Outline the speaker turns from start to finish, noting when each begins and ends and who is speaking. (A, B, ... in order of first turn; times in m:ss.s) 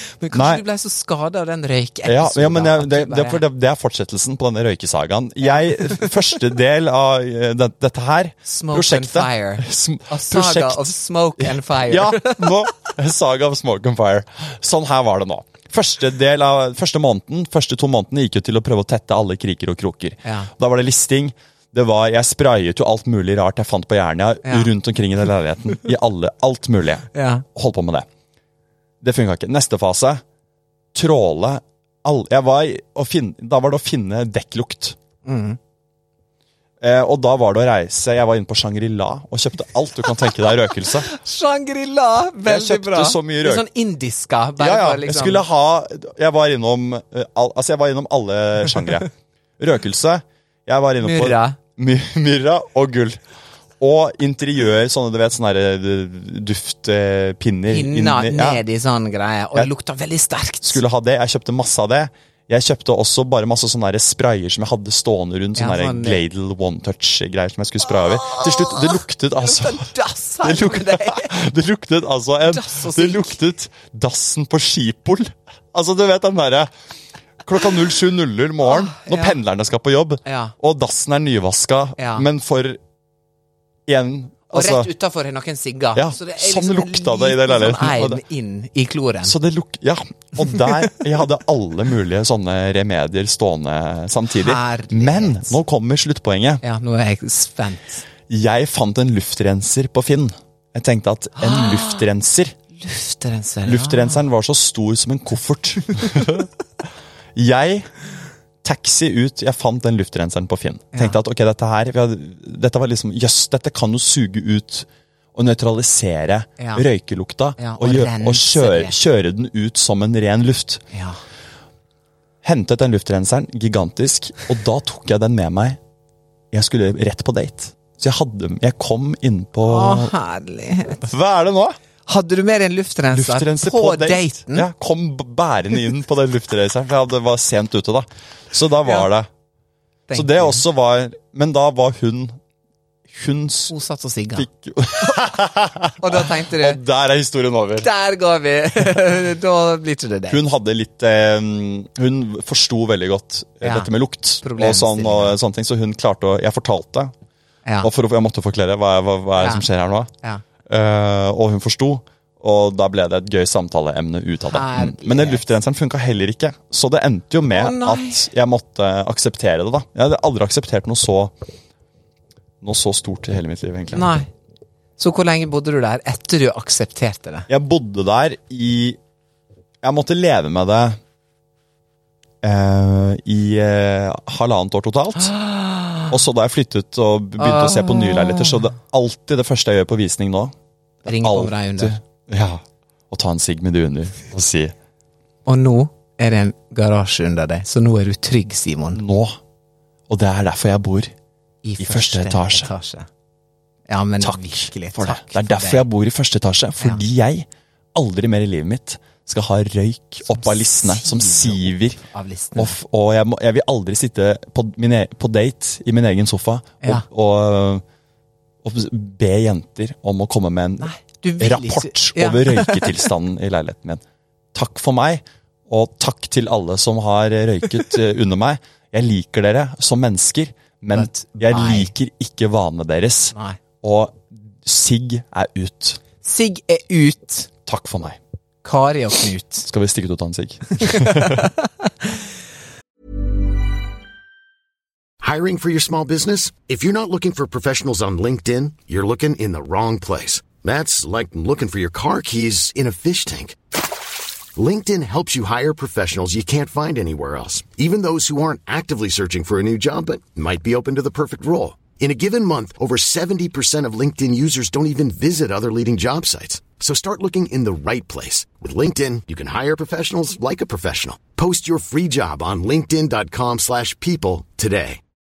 0:00.2-0:03.4 A
0:00.3-0:00.6 B
0:02.0-0:28.0 B
0:05.5-0:06.1 A
0:08.4-0:12.7 A
0:20.2-0:20.5 A
0:24.4-0:24.7 A
0:27.1-0:27.4 A
0:29.0-0:30.2 B
0:30.9-0:35.0 B
0:35.2-0:35.6 A
0:36.8-0:41.1 B
0:41.0-0:45.4 A
0:42.4-0:43.6 B
0:44.6-0:49.1 B
0:49.6-0:53.2 B
0:51.0-0:51.6 A
0:53.8-0:58.6 B
0:57.7-1:00.8 A
1:00.6-1:09.9 B
1:05.6-1:06.2 A
1:07.8-1:11.4 A
1:10.4-1:16.7 B
1:12.4-1:13.4 A
1:17.4-1:22.8 B
1:18.6-1:19.4 A
1:20.2-1:20.5 A
1:22.0-1:22.2 A
1:23.9-1:24.9 B
1:24.5-1:29.3 A
1:25.9-1:28.2 B
1:29.2-1:36.6 B
1:34.3-1:35.6 A
1:36.6-1:38.0 A
1:38.3-1:42.6 B
1:41.4-1:42.0 A
1:42.8-1:44.2 A
1:43.6-1:46.5 B
1:47.3-1:47.9 B
1:48.6-2:00.8 B
1:50.9-1:51.2 A
1:56.6-1:56.8 A
1:57.6-1:59.0 A
2:00.9-2:01.2 A
2:02.4-2:05.8 B
2:06.5-2:10.1 B
2:09.6-2:11.1 A
2:11.0-2:11.8 B
2:12.0-2:14.7 A
2:13.1-2:19.3 B
2:20.1-2:20.6 A
2:20.1-2:22.4 B
2:23.1-2:23.7 B
2:23.7-2:24.5 A
2:24.3-2:27.9 B
2:25.0-2:25.3 A
2:26.0-2:26.8 A
2:27.8-2:30.4 A
2:30.3-2:37.1 B
2:33.6-2:33.9 A
2:34.4-2:35.4 A
2:37.8-2:40.1 B
2:39.4-2:39.6 A
2:40.7-2:51.3 B
2:44.5-2:45.4 A
2:47.5-2:48.2 A
2:52.6-2:54.1 B
2:53.9-2:54.3 A
2:55.0-2:57.5 A
2:57.5-2:59.0 B
2:59.8-3:01.0 B
3:02.4-3:05.4 B
3:05.2-3:06.1 A
3:06.1-3:10.5 B
3:07.4-3:08.7 A
3:11.0-3:14.7 B
3:11.0-3:12.0 A
3:15.4-3:19.0 A
3:18.9-3:19.4 B
3:20.1-3:21.1 B
3:21.6-3:23.1 A
3:21.8-3:22.7 B
3:23.9-3:25.8 A
3:24.2-3:32.0 B
3:30.3-3:32.8 A
3:32.6-3:37.8 B
3:38.6-3:44.0 B
3:40.8-3:43.0 A
3:44.5-3:56.0 B
3:50.9-3:51.9 A
3:53.3-3:53.6 A
3:56.2-3:57.5 A
3:57.6-3:58.2 B
3:58.6-3:59.7 A
3:59.6-4:01.5 B
4:00.8-4:01.5 A
4:05.2-4:13.6 C
4:14.6-4:35.0 C